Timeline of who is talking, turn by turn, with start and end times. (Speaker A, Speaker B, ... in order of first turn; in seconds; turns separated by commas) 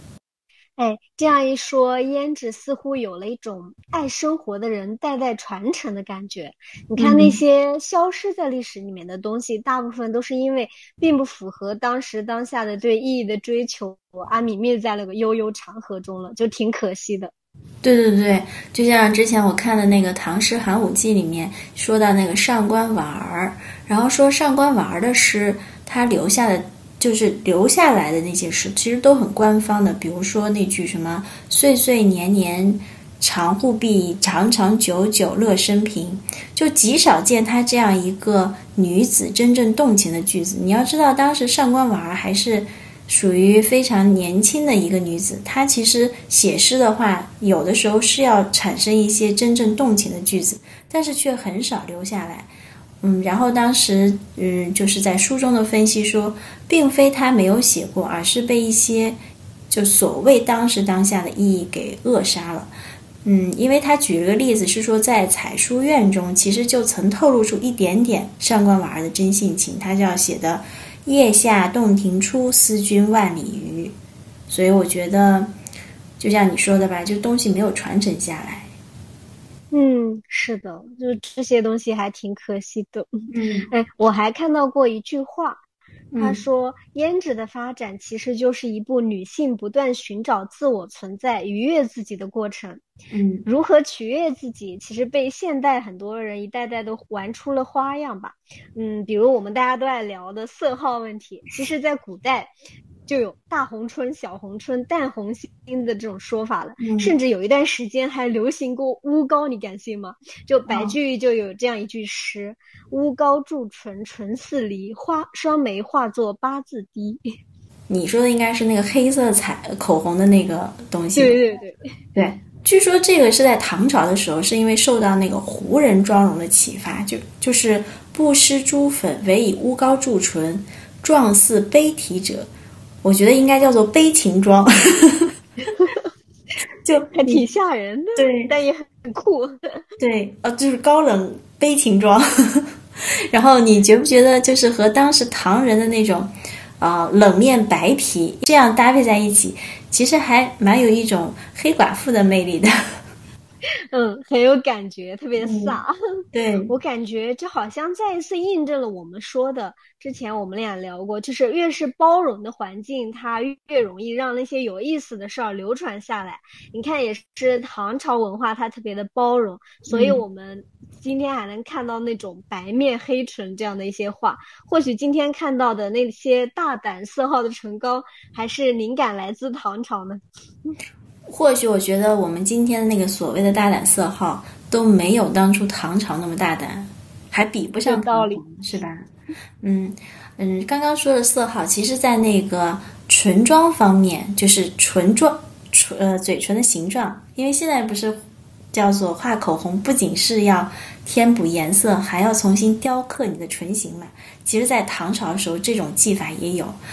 Speaker A: 0.8-17.3, Speaker B: 7.0-7.4, Speaker B: 17.8-52.5, Speaker B: 53.0-59.2, Speaker B: 59.7-62.7, Speaker B: 63.2-73.9, Speaker B: 74.5-75.5, Speaker B: 76.2-78.7, Speaker A: 79.7-85.6, Speaker B: 83.3-83.7, Speaker B: 86.1-86.4, Speaker A: 86.2-92.8, Speaker B: 93.1-93.5, Speaker A: 93.5-102.5, Speaker A: 103.1-117.2, Speaker B: 106.8-107.1, Speaker B: 110.7-111.0, Speaker B: 117.9-121.4, Speaker A: 121.2-121.8, Speaker B: 122.2-132.5, Speaker B: 133.0-135.3, Speaker A: 135.7-136.1, Speaker B: 136.8-137.4, Speaker A: 137.1-139.9, Speaker B: 138.2-138.5, Speaker B: 140.0-142.7, Speaker B: 143.3-152.7, Speaker A: 153.9-155.9, Speaker B: 155.4-155.8, Speaker B: 156.3-156.7, Speaker A: 156.7-180.2, Speaker B: 169.9-170.2, Speaker B: 181.3-189.1, Speaker A: 187.9-188.4, Speaker B: 189.6-198.2, Speaker B: 198.7-206.8